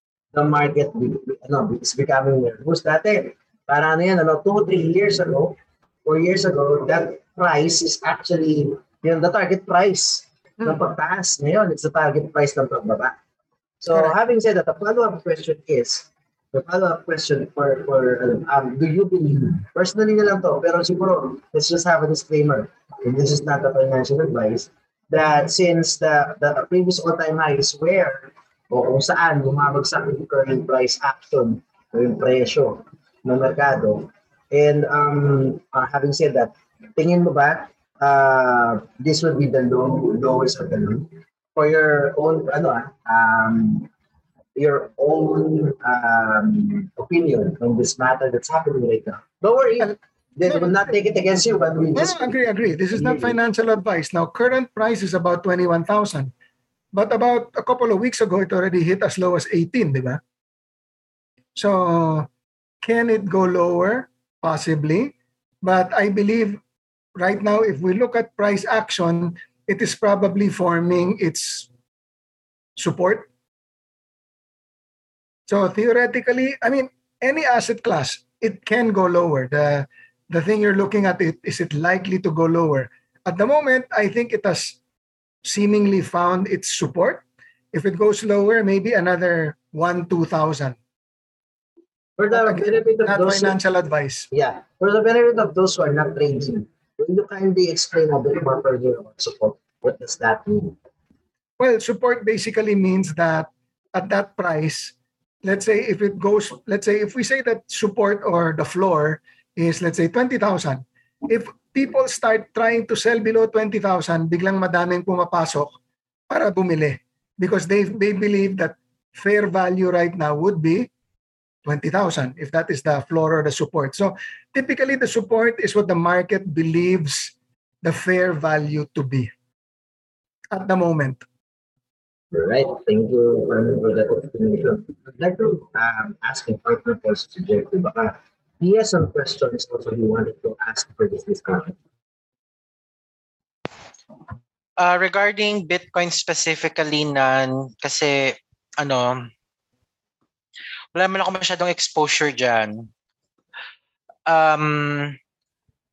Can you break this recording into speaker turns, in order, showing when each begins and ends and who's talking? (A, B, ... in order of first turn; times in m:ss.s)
0:00.3-0:13.1 A
0:13.8-0:43.9 A
0:44.6-0:53.4 A
0:49.8-0:50.8 B
0:51.9-0:56.3 B
0:56.9-1:00.2 B
1:01.5-1:02.3 B
1:02.8-1:06.6 B
1:07.2-1:11.7 B
1:12.8-1:13.3 B
1:15.5-1:24.8 B
1:25.4-1:30.8 B
1:32.2-1:33.6 A
1:32.3-1:34.3 B
1:34.3-1:40.8 A
1:41.6-1:55.8 B
1:56.3-2:00.9 B
2:01.6-2:09.3 B
2:10.5-2:11.2 B
2:12.3-2:21.8 A
2:24.8-2:29.3 C
2:30.9-2:32.9 C
2:34.3-2:35.2 C